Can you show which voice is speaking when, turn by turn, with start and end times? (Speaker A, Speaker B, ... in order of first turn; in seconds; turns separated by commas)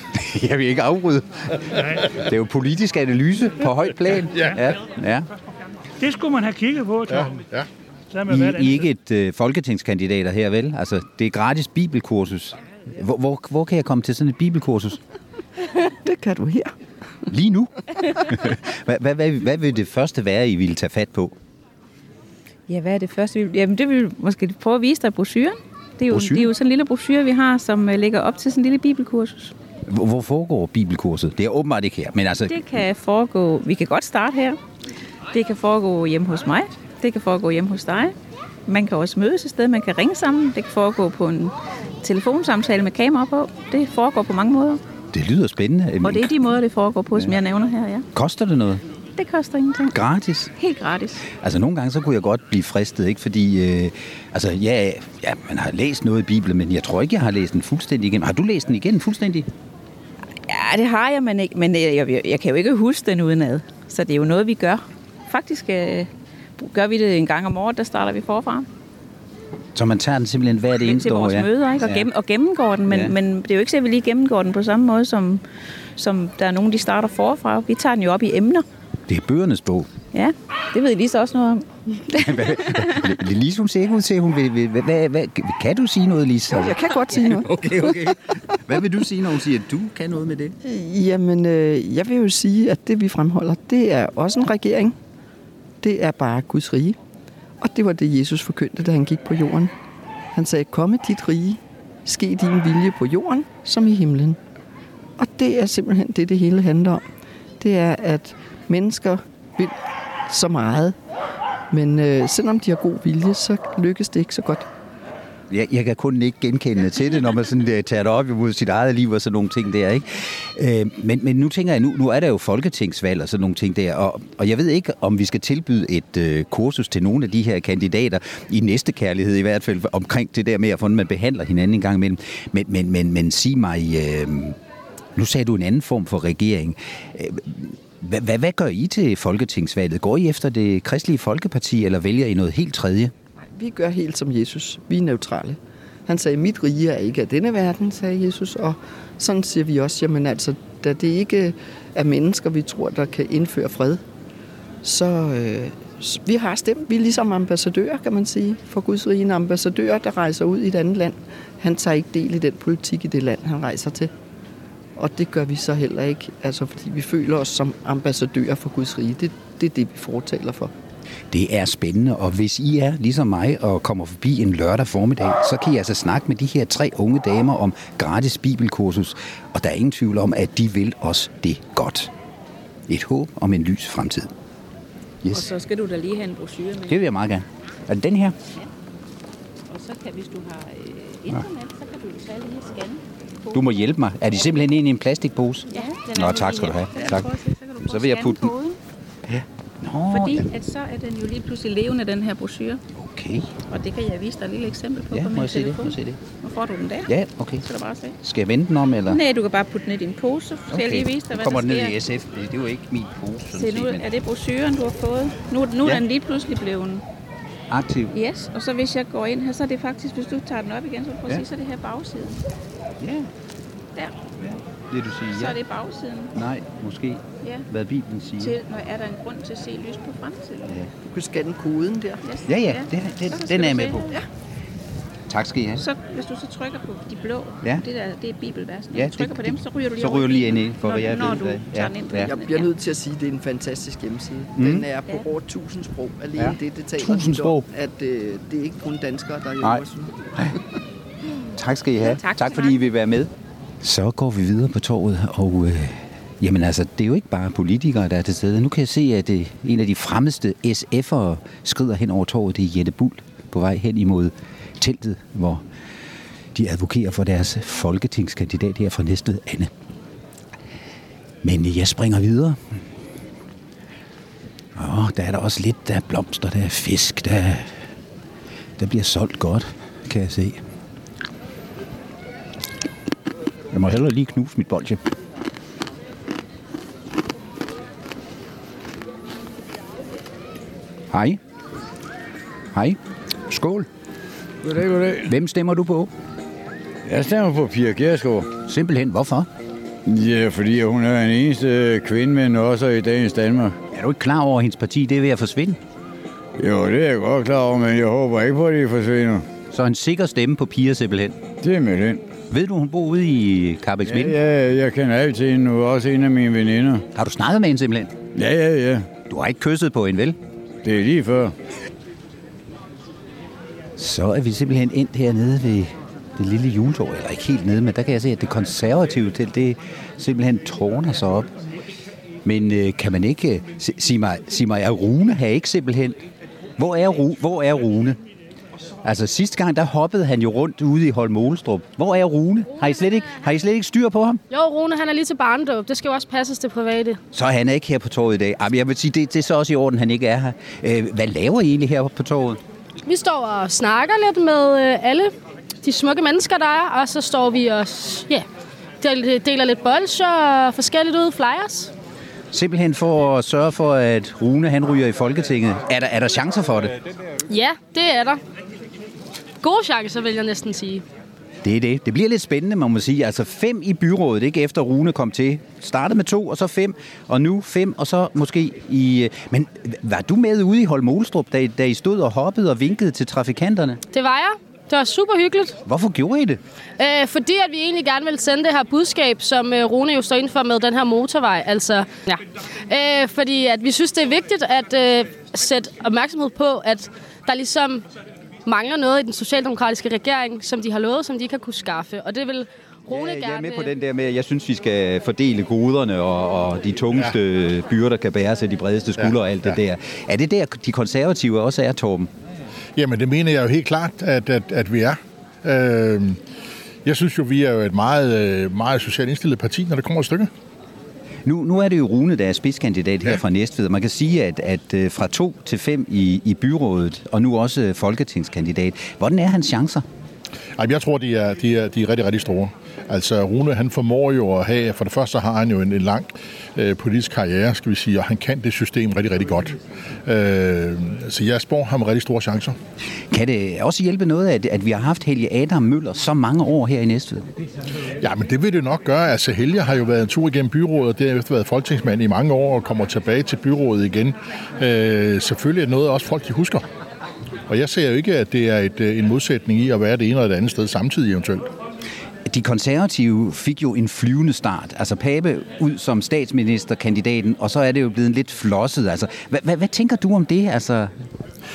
Speaker A: 0.1-5.3, Speaker B: 1.7-2.1, Speaker B: 6.0-7.4, Speaker C: 7.1-7.7, Speaker B: 8.1-8.9, Speaker A: 8.3-15.0, Speaker D: 16.0-16.7, Speaker A: 17.3-21.3, Speaker E: 22.7-29.5, Speaker A: 26.1-26.5, Speaker A: 29.9-32.6, Speaker E: 32.5-34.6, Speaker E: 35.3-38.1, Speaker E: 38.7-44.8, Speaker A: 45.1-46.3, Speaker E: 46.0-48.0, Speaker A: 48.1-48.8, Speaker E: 49.1-49.9, Speaker A: 49.9-50.5, Speaker E: 50.6-51.2, Speaker A: 51.3-59.5, Speaker E: 60.5-68.7, Speaker A: 69.7-72.1, Speaker E: 70.8-75.4, Speaker A: 72.9-73.1, Speaker E: 76.0-78.7, Speaker A: 79.1-79.9, Speaker E: 80.1-83.1, Speaker A: 82.2-90.5, Speaker D: 86.5-88.1, Speaker D: 90.6-95.0, Speaker D: 95.8-97.0, Speaker D: 97.6-99.7, Speaker D: 100.3-104.4, Speaker D: 105.2-107.0, Speaker D: 107.6-109.7, Speaker D: 110.3-111.0, Speaker D: 111.7-114.7, Speaker A: 115.5-134.6, Speaker A: 135.2-143.1, Speaker D: 143.5-154.0, Speaker D: 154.8-164.1, Speaker D: 164.9-170.7, Speaker A: 171.3-182.1, Speaker A: 182.9-184.3, Speaker A: 185.2-185.5, Speaker E: 185.3-186.9, Speaker A: 186.9-188.3, Speaker E: 189.7-193.6, Speaker A: 193.5-198.5, Speaker E: 195.7-198.8, Speaker A: 199.3-200.4, Speaker E: 200.1-202.8, Speaker A: 202.9-203.6, Speaker E: 203.7-207.1, Speaker A: 205.1-206.2, Speaker A: 207.1-207.6, Speaker E: 207.6-208.2, Speaker A: 208.2-209.2, Speaker E: 209.1-212.0, Speaker A: 210.7-214.1, Speaker E: 213.5-217.0, Speaker A: 217.7-218.1, Speaker E: 218.1-222.4, Speaker A: 223.0-223.3, Speaker A: 224.4-225.6, Speaker E: 225.3-226.3, Speaker A: 226.3-228.6, Speaker E: 228.4-230.7, Speaker D: 231.1-232.3, Speaker E: 232.2-234.2, Speaker A: 232.4-234.2, Speaker A: 235.3-235.8, Speaker E: 235.8-242.7, Speaker A: 238.9-242.3, Speaker D: 242.3-250.3, Speaker A: 244.6-244.8, Speaker A: 246.4-247.7, Speaker A: 251.6-253.3, Speaker E: 252.0-252.8, Speaker A: 253.8-265.6, Speaker A: 266.5-269.7, Speaker A: 271.4-272.8, Speaker A: 274.7-277.7, Speaker A: 278.8-280.6, Speaker A: 283.7-285.0, Speaker A: 291.1-291.4, Speaker A: 292.7-293.0, Speaker A: 293.5-293.9, Speaker F: 294.6-295.3, Speaker A: 295.2-296.1, Speaker F: 297.1-298.5, Speaker A: 298.6-299.5, Speaker F: 300.1-303.8, Speaker A: 303.9-305.8, Speaker F: 306.6-309.5, Speaker A: 309.7-311.4, Speaker F: 311.6-312.2, Speaker A: 312.5-314.4, Speaker F: 314.1-317.1, Speaker A: 317.1-318.1, Speaker F: 318.3-319.1, Speaker A: 319.3-320.4, Speaker F: 320.8-321.5, Speaker A: 324.0-331.5, Speaker A: 332.4-336.2, Speaker A: 336.8-338.2, Speaker A: 339.0-344.4, Speaker G: 342.8-343.3, Speaker G: 344.5-347.2, Speaker A: 347.3-352.6, Speaker G: 353.1-358.4, Speaker G: 359.0-361.9, Speaker A: 362.5-366.9, Speaker G: 367.5-368.4, Speaker G: 369.6-371.0, Speaker A: 371.6-384.0, Speaker G: 384.1-385.8, Speaker A: 385.8-386.6, Speaker G: 387.0-398.0, Speaker G: 398.6-403.9, Speaker A: 403.1-412.3, Speaker C: 409.2-409.7, Speaker C: 413.0-416.4, Speaker C: 417.0-420.5, Speaker A: 421.4-430.0, Speaker C: 430.8-442.8, Speaker A: 443.3-447.4, Speaker C: 448.2-456.8, Speaker C: 457.7-461.7, Speaker A: 462.4-471.1